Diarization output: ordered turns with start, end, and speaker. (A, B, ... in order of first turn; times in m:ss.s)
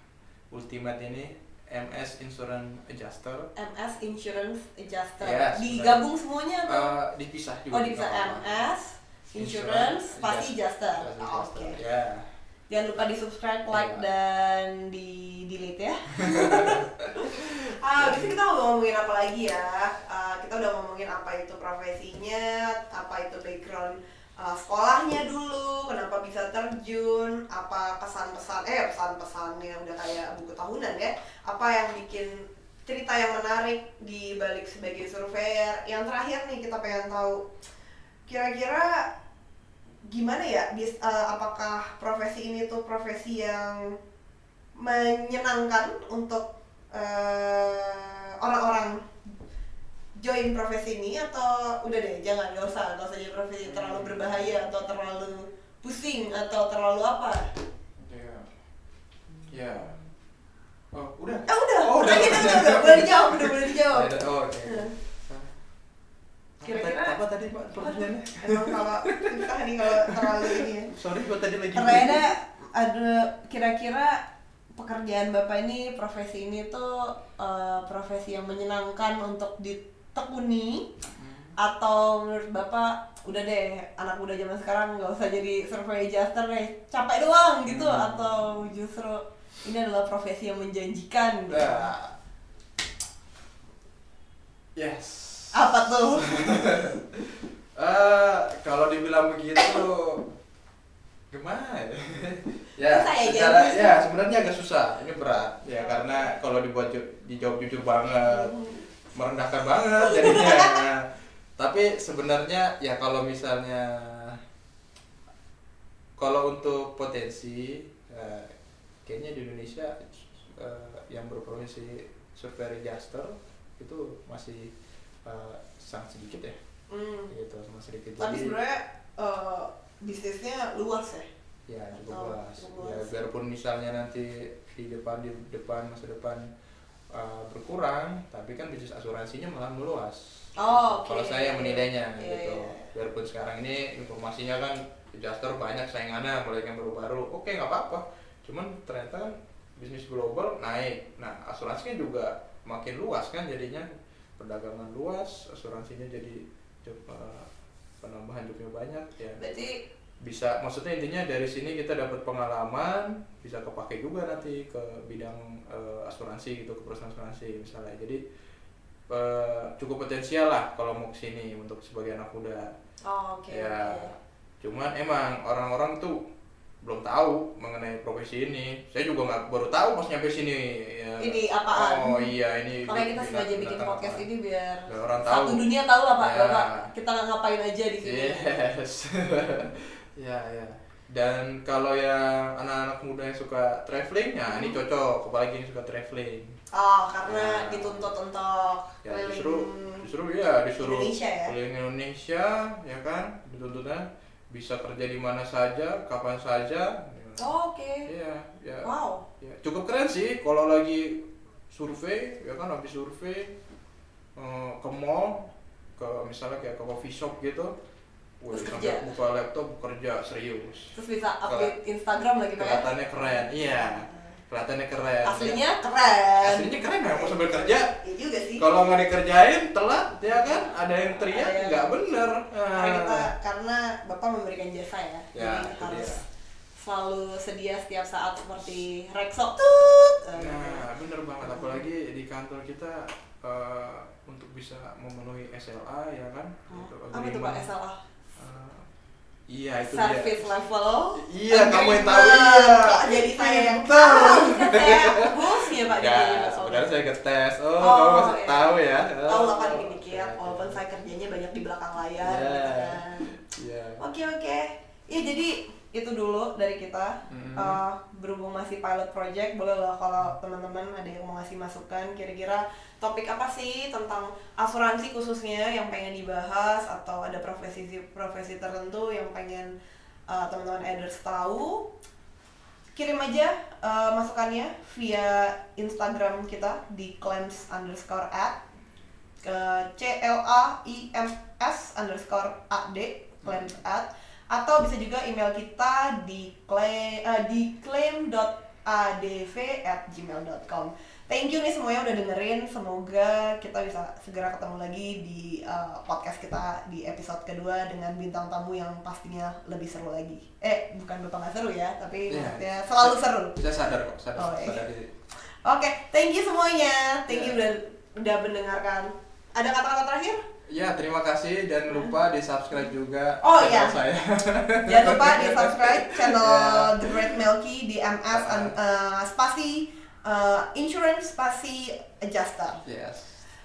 0:00.5-0:03.5 A
0:03.5-0:06.9 B
0:05.2-0:06.0 A
0:06.6-0:08.7 A
0:07.7-0:11.8 B
0:09.4-0:12.2 A
0:12.7-0:37.4 B
0:13.7-0:14.0 A
0:16.2-0:18.3 A
0:38.3-0:39.1 B
0:40.0-0:44.0 B
0:44.8-0:49.1 B
0:50.2-0:57.5 B
0:53.6-0:54.5 A
0:58.0-0:58.5 A
0:59.5-1:00.0 A
1:00.9-1:05.5 A
1:01.5-1:04.9 B
1:06.6-1:12.2 A
1:06.6-1:07.2 B
1:07.8-1:10.9 B
1:11.7-1:14.2 B
1:14.8-1:20.9 B
1:21.1-1:21.6 A
1:21.6-1:31.9 B
1:27.6-1:28.5 A
1:31.5-1:32.1 A
1:34.8-1:40.2 A
1:35.5-1:36.7 B
1:39.6-1:39.8 B
1:41.3-1:48.5 A
1:42.8-1:44.0 B
1:45.7-1:46.4 B
1:48.1-1:48.9 B
1:49.1-1:51.0 A
1:49.9-1:50.8 B
1:51.6-1:54.4 A
1:56.2-1:58.5 A
1:59.0-2:04.7 A
2:05.2-2:06.6 A
2:06.9-2:07.3 B
2:07.3-2:08.6 A
2:08.2-2:11.3 B
2:11.7-2:16.4 A
2:11.9-2:13.1 B
2:17.1-2:33.8 A
2:20.6-2:22.9 B
2:34.4-2:37.5 A
2:38.0-2:39.4 A
2:39.4-2:39.8 B
2:40.2-2:48.2 A
2:49.1-2:52.7 A
2:53.0-2:54.1 B
2:53.5-2:56.2 A
2:56.8-3:04.2 A
3:01.2-3:02.3 B
3:02.8-3:08.5 B
3:04.9-3:05.6 A
3:06.2-3:06.9 A
3:08.0-3:16.5 A
3:14.5-3:14.8 B
3:16.7-3:20.0 B
3:17.2-3:18.1 A
3:19.0-3:27.5 A
3:20.8-3:21.5 B
3:27.4-3:28.1 B
3:28.1-3:28.9 A
3:28.8-3:29.2 B
3:29.4-3:33.6 A
3:34.4-3:37.7 A
3:38.4-3:40.9 A
3:38.5-3:39.1 B
3:40.9-3:44.3 B
3:41.4-3:41.7 A
3:42.5-3:45.6 A
3:45.2-3:48.6 B
3:46.4-3:47.9 A
3:48.6-3:53.3 A
3:50.2-3:51.9 B
3:52.7-3:56.2 B
3:55.3-3:56.2 A
3:56.8-4:00.8 B
4:00.3-4:07.7 A
4:01.4-4:01.8 B
4:06.7-4:08.0 B
4:08.4-4:08.8 A
4:09.5-4:10.4 A
4:09.8-4:16.9 B
4:11.1-4:20.8 A
4:17.8-4:23.3 B
4:22.2-4:24.0 A
4:24.0-4:39.7 B
4:27.3-4:27.8 A
4:40.3-4:41.9 B
4:42.9-4:48.6 B
4:49.4-5:13.6 B
4:53.4-4:53.7 A
5:12.3-5:15.1 A
5:14.4-5:14.8 B
5:15.6-5:20.4 B
5:17.3-5:17.6 A
5:20.7-5:27.3 A
5:21.9-5:22.2 B
5:23.4-5:24.0 B
5:24.8-5:32.8 B
5:28.3-5:28.7 A
5:32.8-5:33.4 A